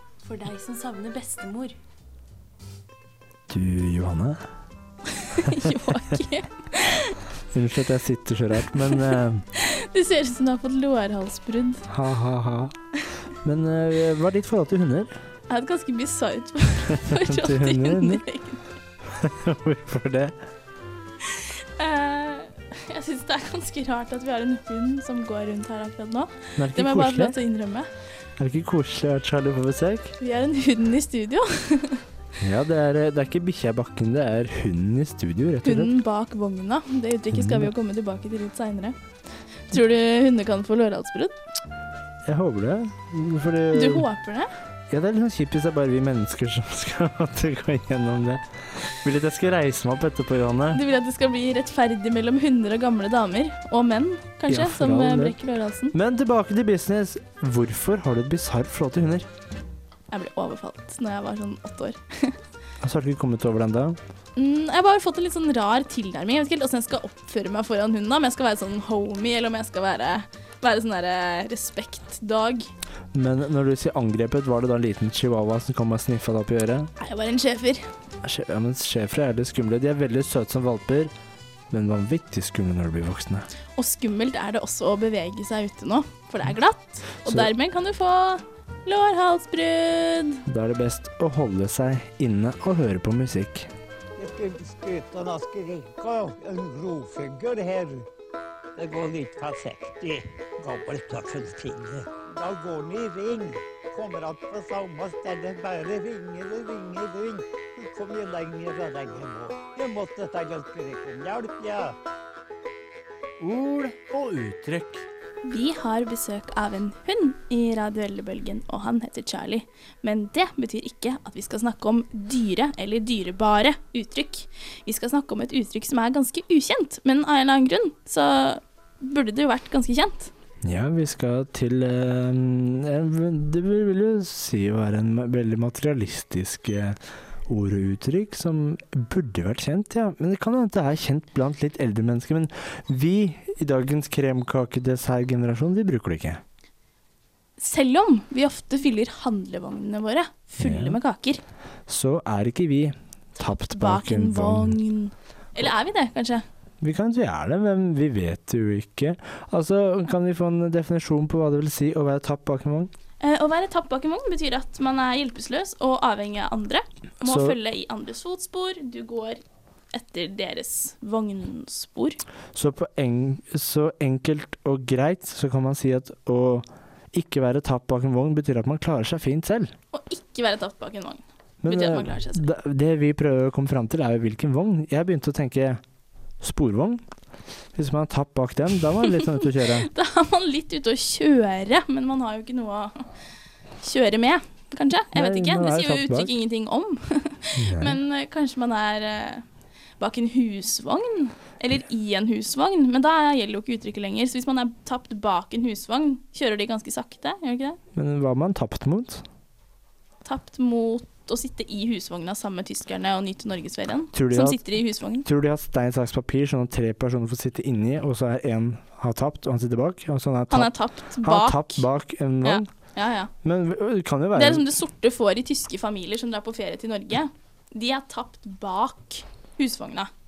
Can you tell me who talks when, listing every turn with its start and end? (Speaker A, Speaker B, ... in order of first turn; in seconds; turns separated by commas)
Speaker A: 0.2-1.8, Speaker B: 3.5-4.4, Speaker A: 5.1-7.2, Speaker B: 7.5-9.4, Speaker A: 8.7-11.8, Speaker B: 11.9-12.8, Speaker B: 13.4-15.1, Speaker A: 15.5-18.6, Speaker B: 16.9-18.2, Speaker B: 19.1-20.4, Speaker A: 21.2-27.9, Speaker B: 26.6-27.4, Speaker B: 28.4-30.1, Speaker A: 30.2-32.0, Speaker B: 32.4-35.9, Speaker A: 35.6-39.0, Speaker B: 37.3-37.7, Speaker A: 39.7-41.3, Speaker B: 42.3-44.1, Speaker A: 43.7-44.5, Speaker B: 44.9-50.8, Speaker A: 50.7-55.9, Speaker B: 54.5-55.4, Speaker B: 55.9-59.3, Speaker A: 60.1-62.4, Speaker B: 62.8-64.0, Speaker A: 64.4-72.7, Speaker B: 73.1-76.9, Speaker A: 77.0-77.8, Speaker B: 78.2-81.1, Speaker B: 81.7-83.5, Speaker A: 83.8-90.4, Speaker B: 87.2-87.5, Speaker B: 90.5-93.7, Speaker C: 94.2-98.1, Speaker C: 98.8-112.0, Speaker B: 113.4-115.1, Speaker A: 115.4-130.3, Speaker B: 130.6-146.4, Speaker A: 147.6-151.4, Speaker B: 150.6-151.0, Speaker B: 151.9-154.8, Speaker A: 153.4-156.4, Speaker B: 156.8-162.9, Speaker A: 163.2-169.4, Speaker B: 167.2-167.6, Speaker A: 169.9-172.2, Speaker B: 172.5-179.7, Speaker A: 179.9-182.5, Speaker B: 181.6-185.8, Speaker B: 186.4-187.0, Speaker B: 187.8-189.9, Speaker A: 189.2-193.1, Speaker A: 193.8-199.4, Speaker B: 195.1-196.3, Speaker B: 197.6-198.0, Speaker A: 200.0-207.8, Speaker B: 207.9-209.2, Speaker A: 210.2-215.3, Speaker B: 214.1-214.6, Speaker B: 215.2-222.7, Speaker A: 220.5-221.9, Speaker A: 222.4-223.3, Speaker B: 223.4-224.7, Speaker A: 224.3-230.1